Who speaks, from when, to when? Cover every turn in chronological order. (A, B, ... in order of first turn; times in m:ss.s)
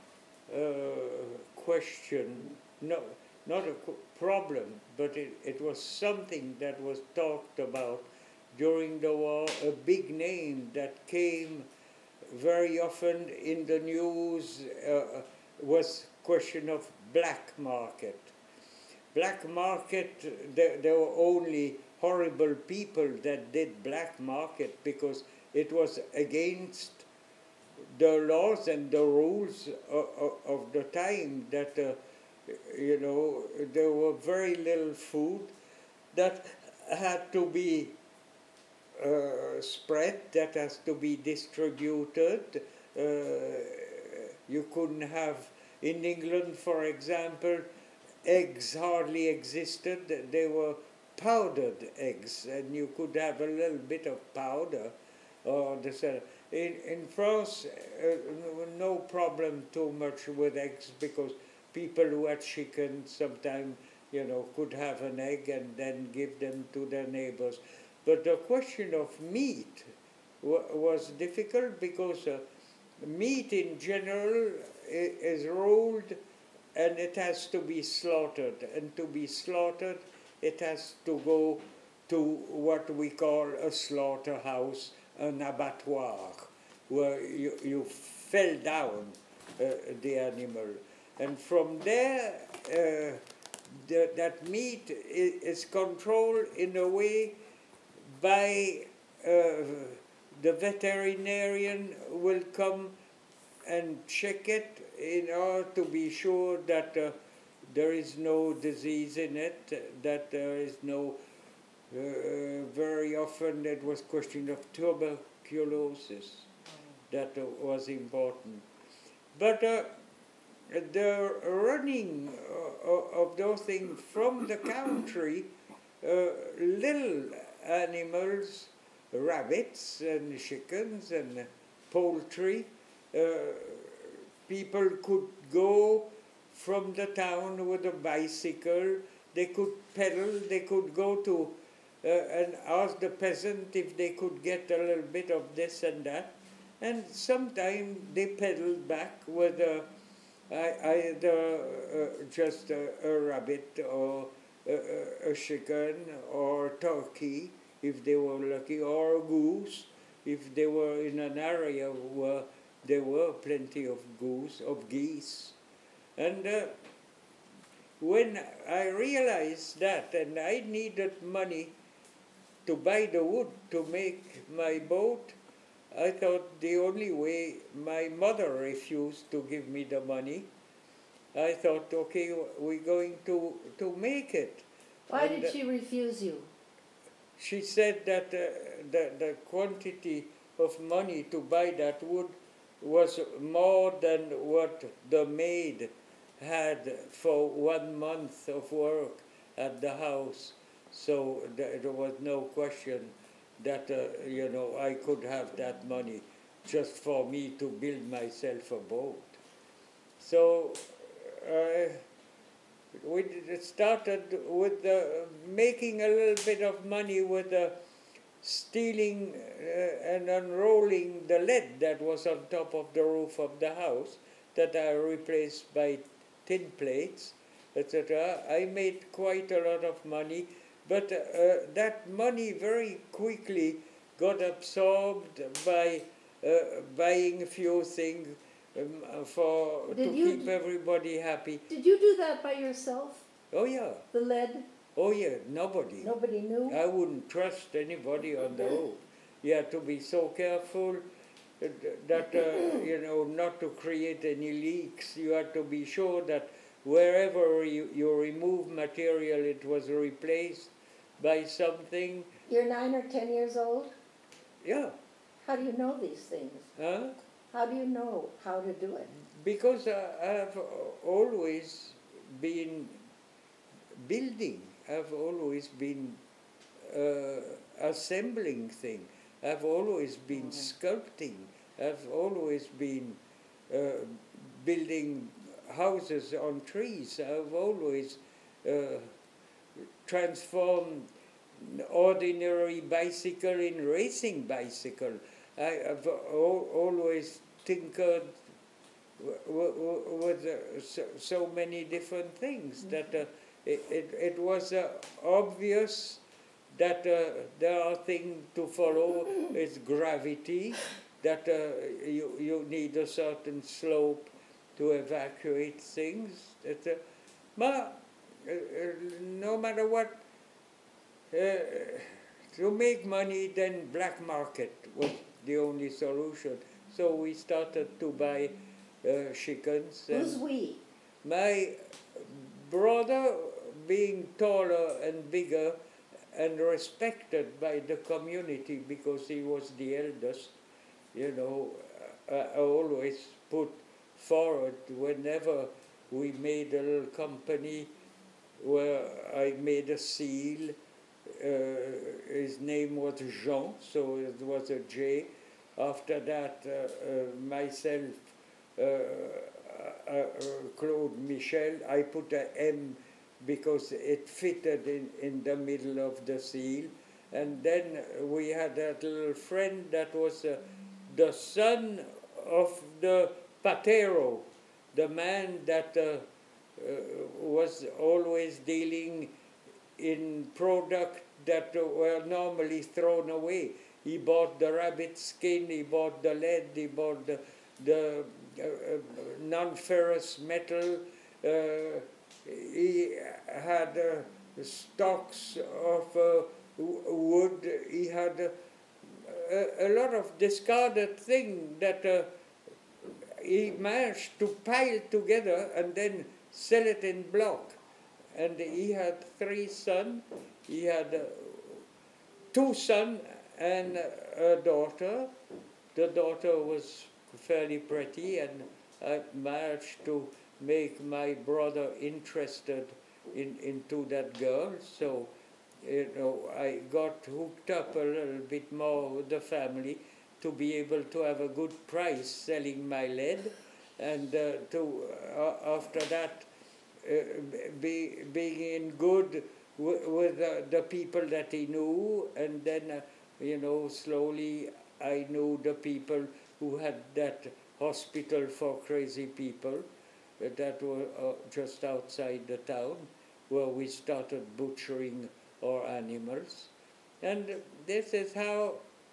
0:00.5-0:11.7 A
0:12.3-0:18.3 A
0:19.1-0:27.1 A
0:27.8-0:35.5 A
0:36.1-0:38.0 A
0:39.0-0:47.7 A
0:48.2-1:09.9 A
1:10.4-1:12.4 A
1:13.0-1:16.2 A
1:16.7-1:37.4 A
1:38.1-1:43.0 A
1:43.6-1:47.2 A
1:47.7-1:51.2 A
1:51.9-1:56.5 A
1:57.1-1:58.6 A
1:59.3-1:59.9 A
2:00.7-2:29.9 A
2:30.5-2:45.6 A
2:46.2-2:46.7 A
2:48.0-2:51.8 A
2:52.6-2:55.4 A
2:55.9-3:00.5 A
3:01.3-3:05.6 A
3:05.1-3:06.5 B
3:07.4-3:29.4 A
3:30.2-3:32.0 A
3:32.9-3:37.8 A
3:38.4-4:01.6 A
3:59.9-4:00.5 B
4:01.7-4:03.3 B
4:03.5-4:04.0 A
4:04.1-4:04.7 B
4:05.0-4:06.1 A
4:06.0-4:06.8 B
4:06.7-4:11.0 A
4:11.6-4:22.3 A
4:22.5-4:23.9 B
4:24.6-4:24.9 A
4:25.4-4:26.7 B
4:26.8-4:27.2 A
4:27.5-4:29.1 B
4:29.1-4:33.0 A
4:33.9-4:36.2 A
4:36.8-4:49.1 A
4:50.0-4:58.4 A
4:59.2-5:06.2 A
5:06.7-5:17.0 A
5:17.6-5:20.2 A
5:21.3-5:30.4 A
5:30.1-5:30.8 B
5:31.2-5:35.8 A
5:36.3-5:40.5 A
5:41.1-5:47.9 A
5:48.6-5:50.8 A
5:51.3-6:19.3 A
6:20.0-6:42.3 A
6:43.2-6:47.8 A
6:48.3-6:51.8 A
6:52.5-6:55.3 A
6:55.9-7:16.5 A
7:17.0-7:29.8 A
7:30.4-7:38.8 A